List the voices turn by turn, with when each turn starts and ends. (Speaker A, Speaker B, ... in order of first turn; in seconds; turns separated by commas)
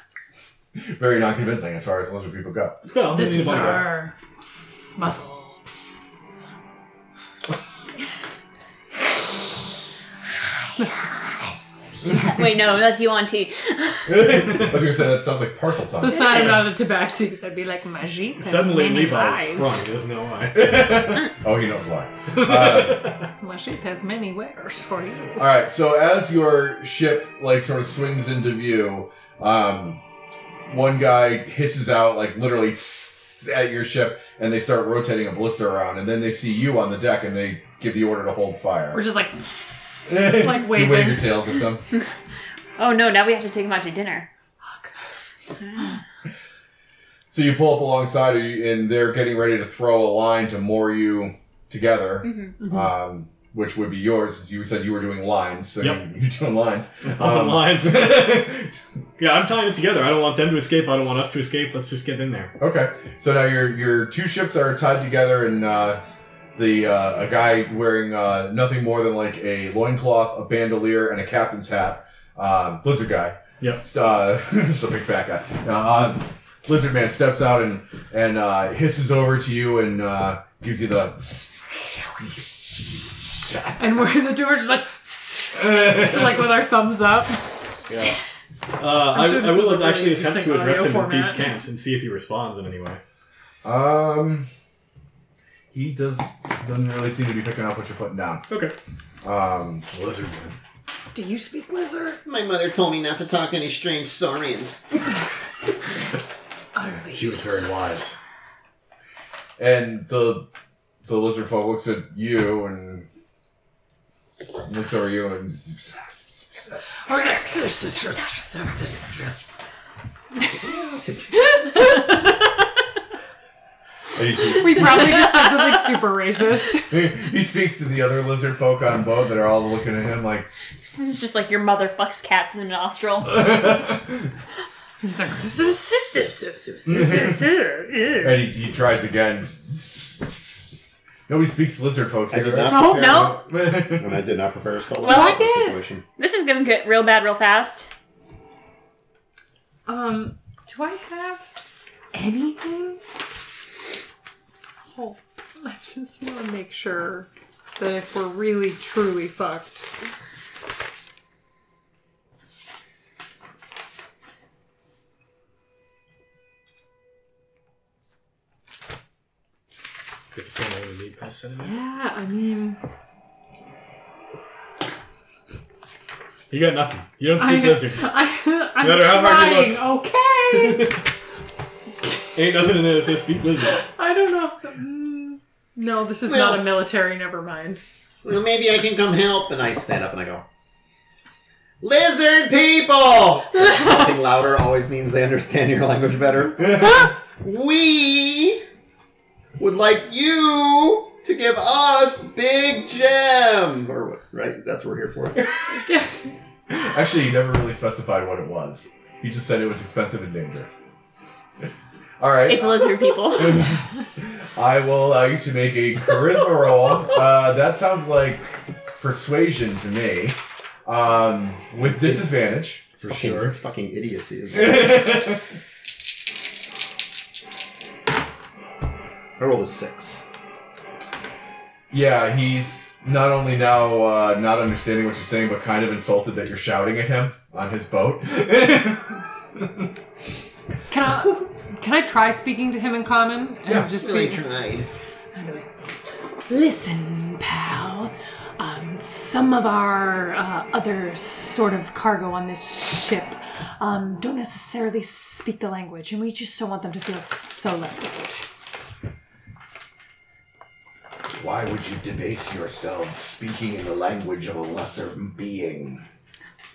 Speaker A: 0.8-2.8, Speaker B: 2.9-3.9, Speaker C: 3.1-6.2, Speaker D: 10.6-14.3, Speaker A: 14.1-16.4, Speaker B: 14.4-14.8, Speaker C: 15.9-19.8, Speaker B: 16.2-16.7, Speaker B: 18.4-21.2, Speaker A: 20.5-23.1, Speaker B: 22.3-23.3, Speaker C: 23.4-25.5, Speaker A: 25.4-30.0, Speaker A: 30.7-39.0, Speaker C: 38.9-41.4, Speaker A: 40.1-41.8, Speaker D: 42.8-44.3, Speaker C: 44.6-44.9, Speaker D: 45.6-45.9, Speaker A: 47.3-58.7, Speaker D: 52.2-52.6, Speaker B: 57.0-58.6, Speaker B: 59.2-62.5, Speaker A: 62.6-66.0, Speaker A: 66.5-84.0, Speaker C: 83.8-87.5, Speaker B: 87.9-88.1, Speaker B: 88.8-93.0, Speaker C: 89.1-91.6, Speaker A: 93.6-94.5, Speaker A: 95.7-98.5, Speaker B: 98.5-98.7, Speaker A: 99.2-99.8, Speaker B: 99.9-100.5, Speaker C: 101.1-102.2, Speaker E: 102.2-104.9, Speaker C: 106.7-107.9, Speaker B: 107.1-108.2, Speaker A: 109.6-110.5, Speaker A: 111.0-113.1, Speaker A: 114.6-116.8, Speaker C: 117.0-119.4, Speaker E: 120.6-121.6, Speaker C: 121.4-122.3, Speaker A: 124.1-125.1, Speaker C: 124.5-127.0, Speaker A: 126.9-130.5, Speaker D: 130.9-133.7, Speaker A: 133.3-134.1, Speaker C: 135.0-137.2, Speaker A: 136.8-137.4, Speaker D: 136.9-138.3, Speaker A: 138.2-144.3, Speaker E: 142.3-146.0, Speaker D: 142.7-143.4, Speaker D: 145.0-145.5, Speaker C: 145.0-145.8, Speaker D: 146.2-147.9, Speaker C: 149.8-151.5, Speaker C: 152.1-153.0, Speaker C: 154.9-159.9, Speaker B: 170.3-171.8, Speaker C: 171.6-172.8, Speaker B: 176.5-178.2, Speaker C: 177.3-181.0, Speaker B: 178.8-181.0, Speaker B: 182.3-183.8, Speaker C: 183.7-187.8, Speaker E: 186.2-186.8, Speaker E: 188.2-190.4, Speaker E: 191.8-198.6, Speaker E: 199.6-205.5, Speaker C: 205.7-206.6, Speaker A: 206.7-210.8, Speaker A: 212.2-222.9, Speaker D: 212.4-213.7, Speaker B: 223.0-223.6, Speaker E: 223.0-225.4, Speaker A: 224.5-225.4, Speaker E: 229.4-230.2, Speaker A: 231.9-239.8, Speaker C: 240.9-244.4, Speaker E: 243.7-244.9, Speaker C: 245.3-245.7, Speaker C: 246.5-258.5, Speaker A: 261.3-266.0